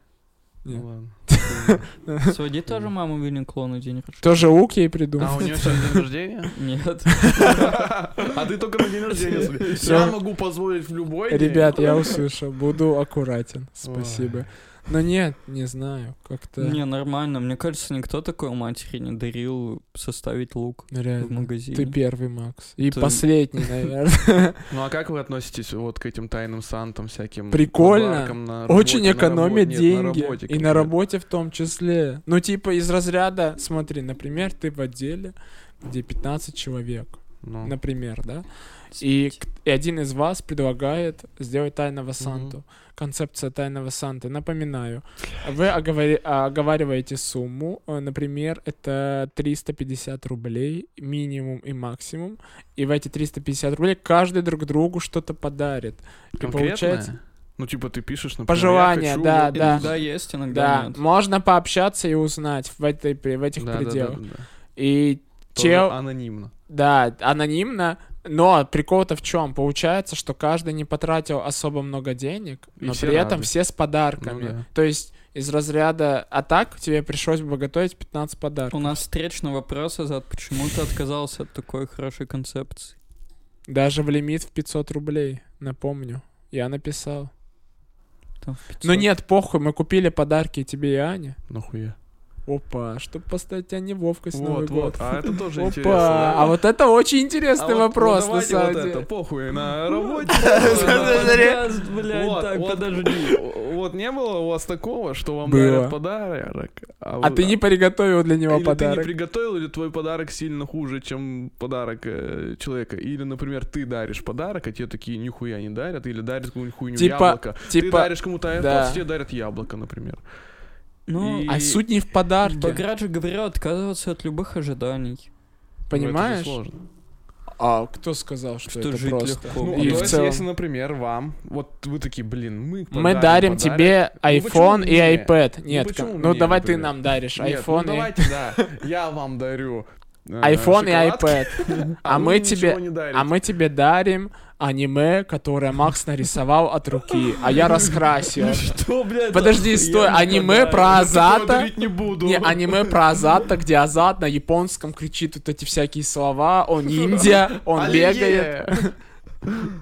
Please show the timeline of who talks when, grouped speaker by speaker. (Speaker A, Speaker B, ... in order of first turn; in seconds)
Speaker A: 0.6-2.3, 4.2-6.0, 9.8-10.2, 11.3-16.8, 20.9-24.6, 27.5-38.4, 39.0-57.1, 58.5-59.9, 60.5-64.2, 64.8-66.0, 66.7-78.8, 83.7-87.3, 88.8-91.4, 92.5-99.1, 100.3-101.6, 105.4-106.0, 107.2-109.1, 117.0-119.0, 121.5-122.8, 125.9-126.6, 127.6-130.4, 132.9-138.7, 140.4-148.7, 149.3-158.9
Speaker B: 0.7-2.0, 5.2-6.5, 7.3-12.0, 13.8-14.5, 24.7-30.9, 37.4-37.7, 42.2-42.5, 56.4-60.0, 63.6-64.5, 65.5-66.5, 72.8-73.5, 74.2-74.7, 91.5-92.0, 94.3-96.6, 97.6-107.6, 108.5-120.2, 121.2-121.8, 125.9-126.8, 129.6-143.3, 147.5-149.3, 150.5-153.2, 156.8-158.8
Speaker C: 2.2-4.5, 5.2-5.8, 6.5-8.3, 16.6-22.1, 22.9-23.7, 59.5-61.0, 78.7-82.9, 88.4-89.0, 100.4-103.4, 121.1-121.6, 122.4-125.3, 128.7-130.2, 141.7-141.9, 149.1-151.0